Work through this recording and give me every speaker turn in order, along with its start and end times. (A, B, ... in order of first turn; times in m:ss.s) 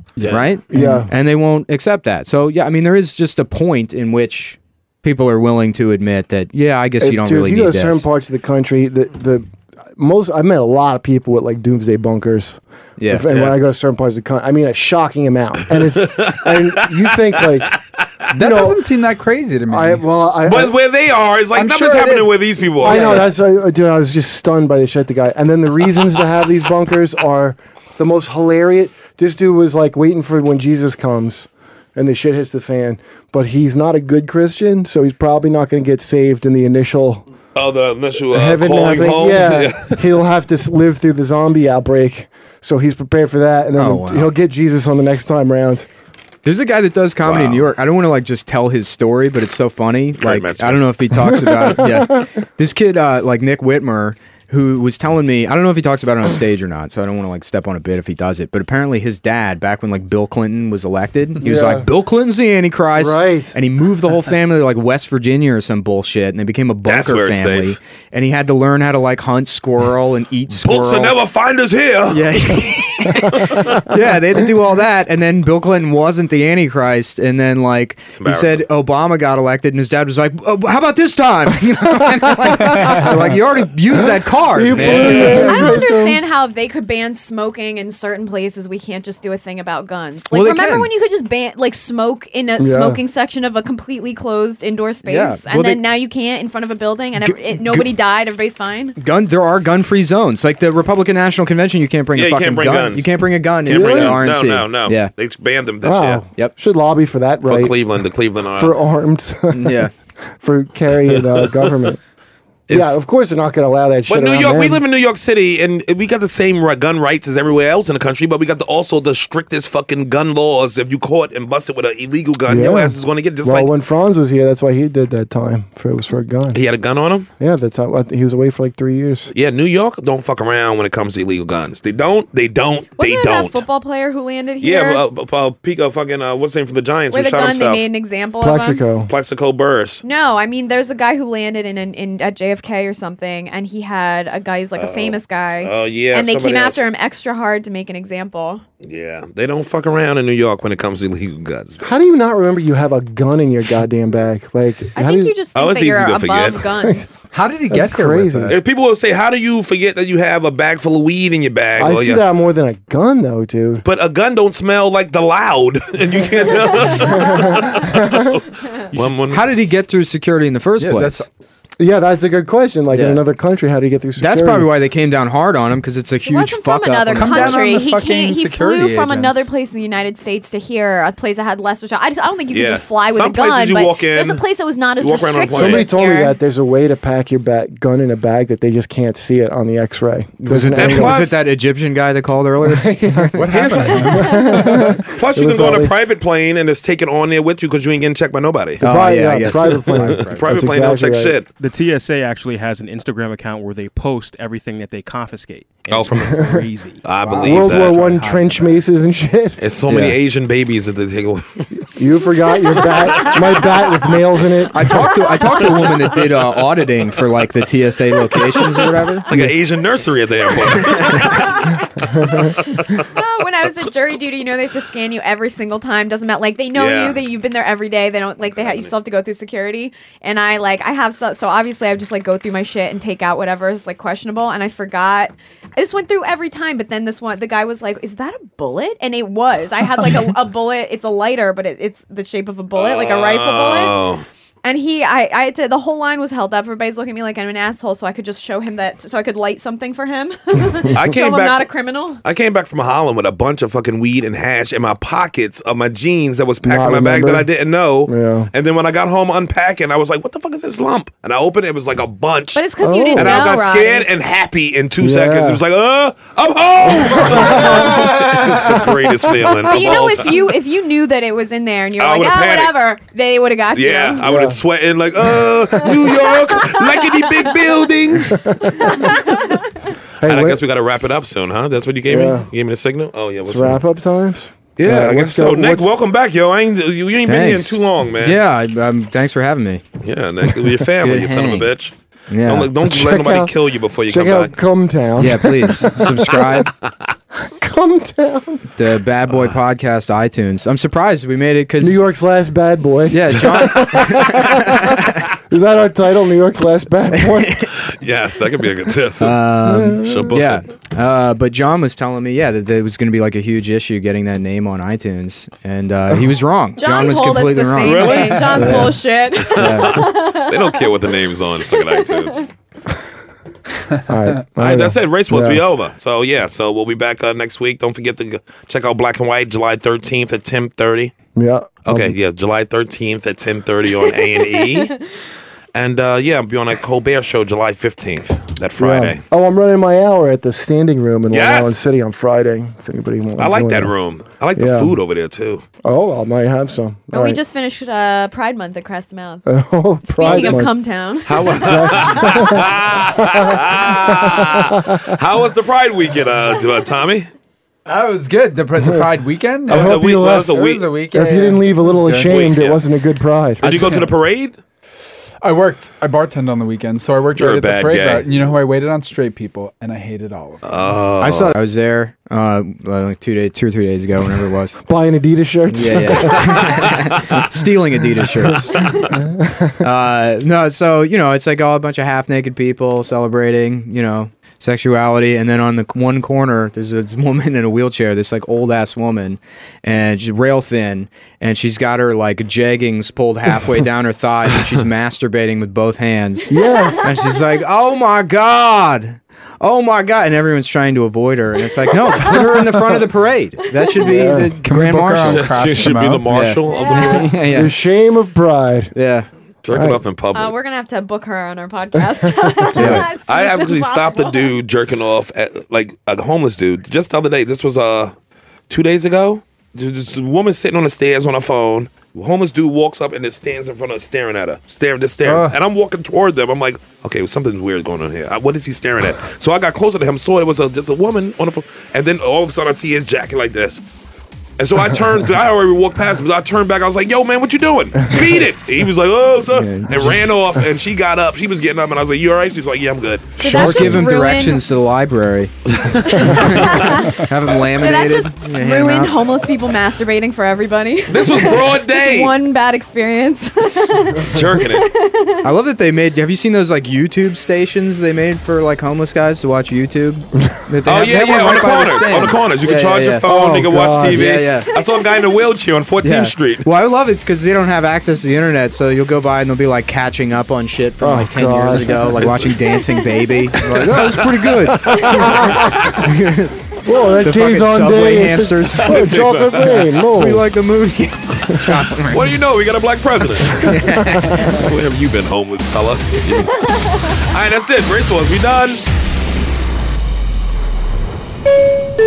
0:00.2-0:00.4 A
0:00.3-0:08.1 B
0:00.7-0:01.1 C
0:07.0-0:17.8 C
0:13.0-0:13.3 B
0:13.3-0:13.5 D
0:16.0-0:16.9 D
0:18.3-0:20.0 A
0:18.3-0:18.8 C
0:19.7-0:20.8 C
0:20.4-0:23.3 D
0:21.5-0:22.3 A
0:22.8-0:37.2 C
0:37.6-0:40.0 D
0:38.3-0:45.9 C
0:43.8-0:44.3 B
0:46.4-1:11.2 B
0:47.2-0:47.7 D
0:50.2-0:50.8 D
0:51.2-0:52.0 C
1:01.4-1:01.9 C
1:03.0-1:03.6 C
1:06.8-1:07.8 D
1:10.5-1:13.7 D
1:12.1-1:25.7 B
1:18.1-1:18.7 D
1:22.1-1:22.9 C
1:22.6-1:23.4 A
1:23.9-1:26.2 C
1:24.7-1:25.2 D
1:25.2-1:39.0 E
1:30.3-1:30.9 B
1:32.6-1:33.0 C
1:35.0-1:35.8 B
1:37.2-1:37.9 B
1:39.0-1:45.1 B
1:42.2-1:43.1 D
1:43.6-1:46.2 D
1:43.7-1:44.2 C
1:45.8-1:47.8 C
1:47.5-1:48.7 D
1:48.6-1:52.0 C
1:49.5-1:49.9 B
1:52.7-1:53.0 D
1:52.7-1:54.8 C
1:54.1-2:03.7 D
2:02.5-2:06.6 C
2:06.5-2:07.3 D
2:07.4-2:09.3 C
2:09.3-2:13.6 D
2:13.0-2:15.0 E
2:14.6-2:17.9 D
2:17.1-2:18.8 E
2:18.4-2:19.1 C
2:19.1-2:20.0 D
2:20.0-2:28.6 E
2:24.8-2:26.8 D
2:28.8-2:31.9 D
2:31.8-2:35.3 C
2:35.0-2:37.1 E
2:35.5-2:36.6 D
2:37.3-2:38.6 A
2:37.7-2:38.6 C
2:38.5-2:42.2 D
2:41.8-2:43.8 C
2:43.8-2:48.4 D
2:47.0-2:48.4 C
2:48.9-2:49.5 D
2:49.3-2:51.3 B
2:50.8-2:51.3 A
2:51.8-2:54.7 C
2:52.9-2:53.2 B
2:54.2-2:57.6 B
2:56.3-3:06.4 E
2:57.2-2:59.5 A
3:02.5-3:04.4 D
3:05.0-3:05.9 D
3:05.5-3:11.3 C
3:10.4-3:12.9 B
3:10.7-3:11.4 D
3:12.6-3:16.0 C
3:13.4-3:14.8 A
3:13.5-3:18.8 D
3:18.8-3:21.4 C
3:18.8-3:20.5 B
3:19.4-3:21.5 D
3:21.6-3:28.8 F
3:25.9-3:26.4 D
3:26.2-3:26.6 C
3:27.0-3:28.1 D
3:27.4-3:29.6 C
3:29.6-3:31.7 D
3:29.9-3:30.2 B
3:31.9-3:35.0 C
3:34.7-3:39.3 B
3:39.2-3:41.7 D
3:41.0-3:41.2 B
3:42.2-3:42.5 C
3:42.3-3:43.0 D
3:43.1-4:04.0 E
3:46.8-3:47.2 D
3:48.5-3:48.9 D
4:02.8-4:04.2 D
4:04.6-4:12.2 E
4:10.9-4:11.7 D
4:12.2-4:22.6 D
4:16.6-4:17.5 C
4:18.1-4:18.5 C
4:22.5-4:24.1 E
4:22.8-4:23.4 C
4:23.2-4:30.4 D
4:25.0-4:25.6 C
4:26.8-4:28.5 C
4:27.8-4:28.2 A
4:29.7-4:34.2 E
4:32.0-4:32.8 D
4:33.7-4:38.4 D
4:34.2-4:34.6 C
4:35.3-4:35.9 C
4:36.6-4:37.2 E
4:38.3-4:39.1 C
4:39.0-4:39.4 E
4:40.2-4:40.6 C
4:40.2-4:43.8 D
4:42.1-4:42.5 C
4:43.5-4:46.0 C
4:44.8-4:48.4 D
4:47.2-4:49.8 B
4:50.0-4:51.9 D
4:51.0-4:51.7 B
4:52.3-4:52.7 B
4:52.4-4:54.5 D
4:52.8-4:53.5 C
4:54.1-4:56.6 C
4:55.2-4:56.7 B
4:57.5-4:58.6 C
4:58.8-5:02.0 B
5:01.8-5:07.6 C
5:03.1-5:05.3 B
5:07.1-5:07.7 B
5:07.8-5:09.4 D
5:09.2-5:18.2 B
5:09.6-5:10.4 C
5:10.0-5:10.6 D
5:16.8-5:20.9 E
5:17.8-5:18.8 D
5:18.3-5:18.6 A
5:18.6-5:19.0 C
5:19.4-5:22.4 D
5:19.6-5:19.9 B
5:21.7-5:22.4 E
5:24.1-5:25.6 C
5:24.6-5:31.1 D
5:31.4-5:32.2 C
5:31.9-5:34.9 D
5:34.1-5:34.9 E
5:35.7-5:39.2 D
5:38.8-5:43.9 C
5:41.3-5:41.8 D
5:43.4-5:45.6 D
5:44.6-5:45.0 C
5:45.8-5:47.4 C
5:47.1-5:49.4 E
5:49.5-5:50.7 C
5:50.0-5:52.3 E
5:50.2-5:50.6 D
5:51.3-5:57.3 D
5:51.5-5:55.1 C
5:57.9-6:02.4 A
5:59.7-6:03.9 C
5:59.7-6:00.9 D
6:02.2-6:02.8 D
6:03.6-6:04.1 A
6:03.6-6:04.6 D
6:05.4-6:10.8 A
6:07.4-6:08.3 D
6:10.6-6:11.6 D
6:11.2-6:14.8 B
6:14.8-6:17.0 C
6:15.7-6:18.8 B
6:16.4-6:16.8 D
6:18.4-6:19.8 C
6:19.8-6:36.5 B
6:36.5-6:37.2 C
6:37.0-6:45.6 B
6:42.2-6:42.7 C
6:44.0-6:44.6 C
6:44.6-6:46.4 A
6:45.2-6:47.3 D
6:46.3-6:47.7 B
6:46.7-6:47.3 E
6:47.5-6:48.9 C
6:49.0-6:49.3 B
6:49.6-6:50.5 D
6:49.7-6:50.0 C
6:50.3-6:54.6 E
6:52.2-6:52.9 C
6:52.8-6:53.0 B
6:52.8-6:58.2 D
6:58.7-7:13.8 D
7:05.2-7:05.5 A
7:14.6-7:23.4 D
7:19.6-7:20.2 C
7:23.4-7:24.6 E
7:23.4-7:24.1 C
7:23.4-7:25.5 B
7:26.2-7:26.4 D
7:26.3-7:29.2 B
7:26.5-7:27.1 E
7:27.8-7:35.4 E
7:31.1-7:32.3 D
7:34.3-7:34.9 D
7:35.4-7:43.2 B
7:40.8-7:46.7 D
7:43.2-7:44.4 C
7:44.1-7:44.7 B
7:46.0-7:54.9 B
7:51.0-7:52.5 C
7:53.7-7:56.0 C
7:56.0-7:56.6 B
7:56.8-8:00.4 C
7:57.2-7:58.9 B
7:58.8-7:59.8 D
8:00.1-8:02.3 B
8:01.5-8:01.8 C
8:02.1-8:03.8 D
8:03.7-8:04.4 B
8:03.8-8:04.6 C
8:04.4-8:08.9 D